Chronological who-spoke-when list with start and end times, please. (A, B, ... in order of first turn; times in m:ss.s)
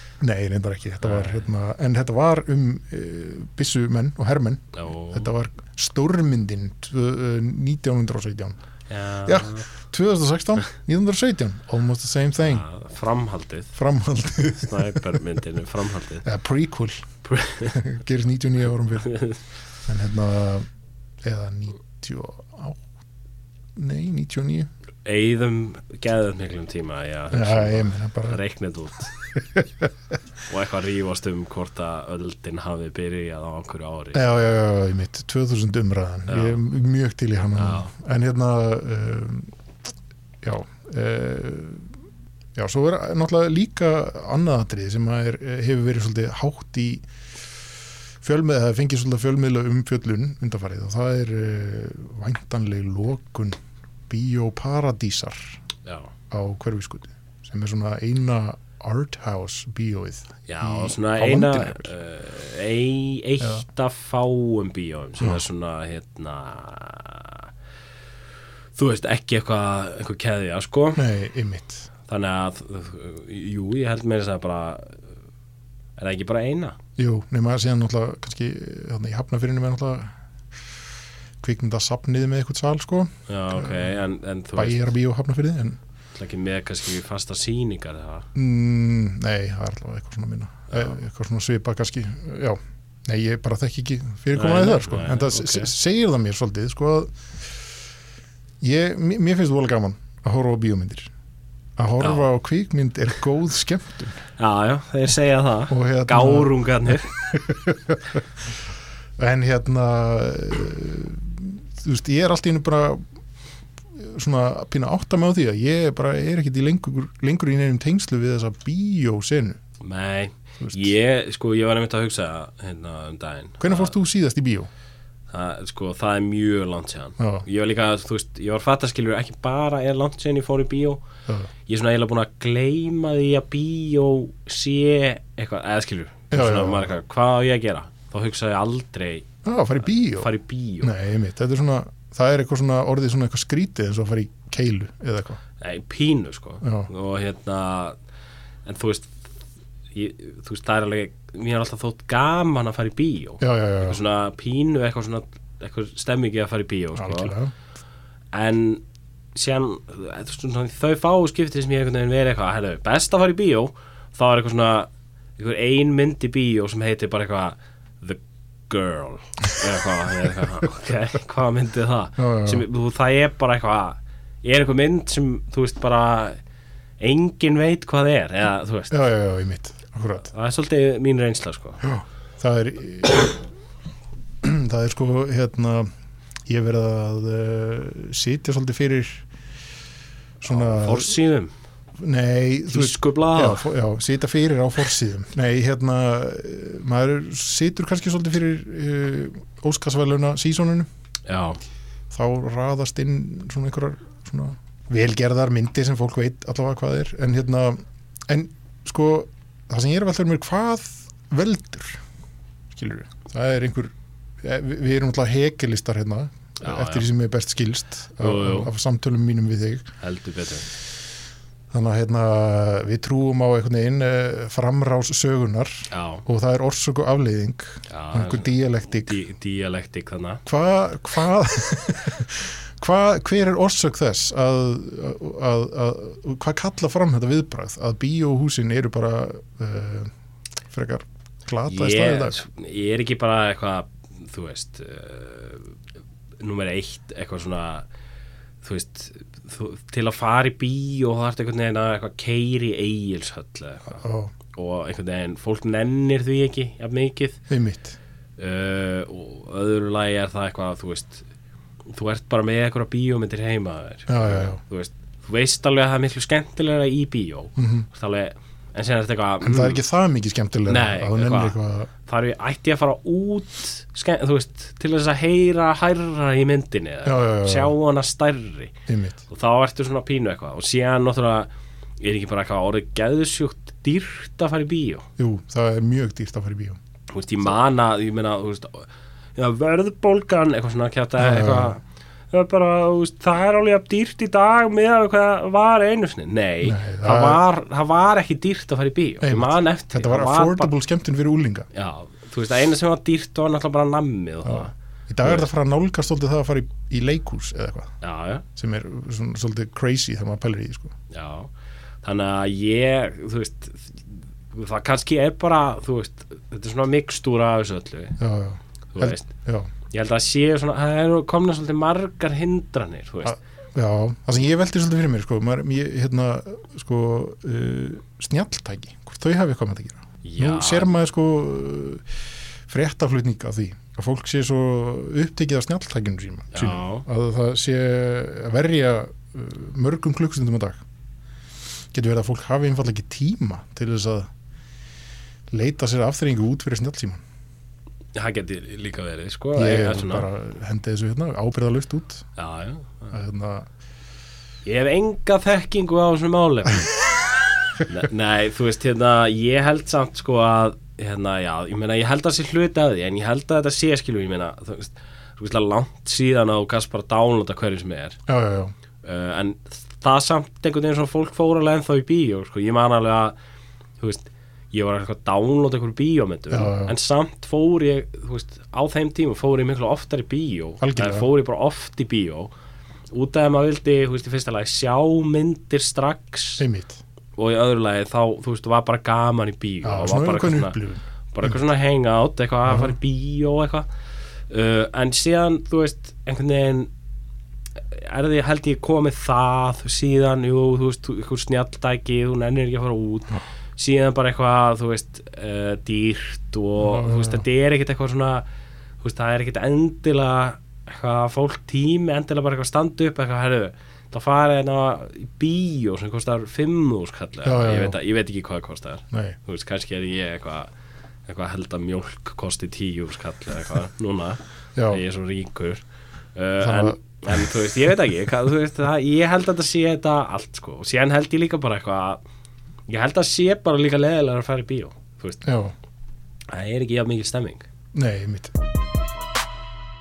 0:00.2-0:08.6 A
0:01.0-0:01.4 B
0:04.7-0:05.3 B
0:08.9-0:09.6 B
0:09.2-0:12.6 A
0:12.4-0:13.7 B
0:13.7-0:15.0 A
0:14.6-0:16.2 B
0:16.2-0:17.0 A
0:17.2-0:17.8 B
0:17.7-0:19.1 A
0:19.0-0:19.4 B
0:19.8-0:20.7 A
0:21.2-0:22.8 A
0:23.8-0:24.7 A
0:25.0-0:29.1 B
0:27.3-0:28.4 A
0:29.3-0:29.9 A
0:30.5-0:34.2 B
0:34.1-0:39.5 A
0:36.3-0:36.6 B
0:37.6-0:37.9 B
0:40.4-0:41.9 A
0:42.5-0:47.0 A
0:48.2-0:53.6 A
0:54.1-0:55.6 A
0:55.8-0:56.1 B
0:56.3-1:01.9 A
1:00.5-1:07.5 B
1:08.8-1:11.0 B
1:11.0-1:11.9 A
1:12.1-1:15.0 B
1:16.0-1:16.8 B
1:17.0-1:20.1 A
1:21.4-1:23.9 A
1:23.3-1:24.8 B
1:24.5-1:25.8 A
1:26.1-1:28.3 B
1:28.3-1:37.1 A
1:34.3-1:35.7 B
1:38.6-1:41.1 A
1:41.8-1:44.2 A
1:44.4-1:47.1 B
1:45.7-1:48.2 A
1:49.2-1:53.0 A
1:54.0-1:59.6 A
1:59.8-2:03.9 B
2:00.6-2:00.8 A
2:03.6-2:04.7 A
2:05.3-2:11.0 B
2:07.2-2:07.4 A
2:11.6-2:19.3 B
2:16.3-2:16.9 A
2:19.4-2:20.3 A
2:20.2-2:20.9 B
2:20.8-2:25.4 A
2:25.6-2:28.0 B
2:26.6-2:26.9 A
2:28.6-2:29.1 B
2:29.9-2:37.3 B
2:33.4-2:34.0 A
2:37.0-2:37.5 A
2:38.3-2:38.8 B
2:39.3-2:56.4 B
2:52.2-2:52.6 A
2:57.0-2:59.0 B
2:58.9-3:00.3 A
3:00.3-3:01.8 B
3:01.8-3:03.4 A
3:04.4-3:05.9 A
3:06.5-3:09.2 A
3:10.4-3:11.1 A
3:10.5-3:11.5 B
3:12.0-3:20.9 A
3:12.7-3:13.7 B
3:21.3-3:21.6 B
3:22.1-3:32.0 A
3:32.7-3:39.9 A
3:36.6-3:37.1 B
3:38.2-3:38.7 B
3:40.0-3:40.7 B
3:41.7-3:49.2 A
3:45.9-3:46.2 B
3:47.9-3:50.4 B
3:50.4-4:00.1 A
4:00.7-4:02.4 A
4:01.7-4:05.7 B
4:06.4-4:07.8 B
4:08.6-4:17.4 B
4:13.9-4:14.3 A
4:17.5-4:18.0 A
4:18.4-4:21.2 B
4:21.9-4:29.8 B
4:24.1-4:24.6 A
4:27.6-4:27.9 A
4:29.4-4:31.9 A
4:30.7-4:38.7 B
4:37.0-4:37.7 A
4:38.9-4:39.2 A
4:39.3-4:41.5 B
4:42.0-4:45.1 B
4:45.2-4:46.8 A
4:47.1-5:00.7 B
4:51.2-4:51.7 A
4:56.6-4:57.4 A
4:59.2-5:01.7 A
5:01.7-5:04.7 B
5:04.4-5:07.9 A
5:08.0-5:08.4 B
5:08.6-5:10.9 A
5:11.1-5:11.5 B
5:12.0-5:18.2 B
5:18.2-5:19.7 A
5:18.9-5:19.3 B
5:19.9-5:23.4 B
5:23.2-5:32.0 A
5:30.2-5:30.9 B
5:32.7-5:40.8 A
5:36.5-5:37.0 B
5:41.9-5:44.3 A
5:45.5-5:47.2 A
5:48.1-5:50.3 B
5:49.6-5:52.3 A
5:52.4-5:53.2 B
5:53.1-5:53.7 A
5:54.6-5:56.9 B
5:57.8-6:08.2 B
6:08.3-6:08.7 A
6:09.0-6:13.3 B
6:14.0-6:22.5 B
6:16.5-6:16.9 A
6:20.8-6:21.3 A
6:23.1-6:26.6 B
6:26.6-6:27.0 A
6:27.4-6:30.8 B
6:29.8-6:31.5 A
6:31.3-6:33.8 B
6:32.7-6:32.9 A
6:34.5-6:36.9 B
6:37.9-6:48.4 B
6:46.8-6:47.4 A
6:49.0-7:00.7 B
6:57.4-6:58.0 A
6:59.1-6:59.4 A
7:01.2-7:05.8 B
7:04.8-7:05.0 A
7:06.3-7:12.2 B
7:06.6-7:07.0 A
7:12.9-7:15.4 B
7:15.4-7:15.7 A
7:16.5-7:17.7 B
7:17.9-7:18.5 A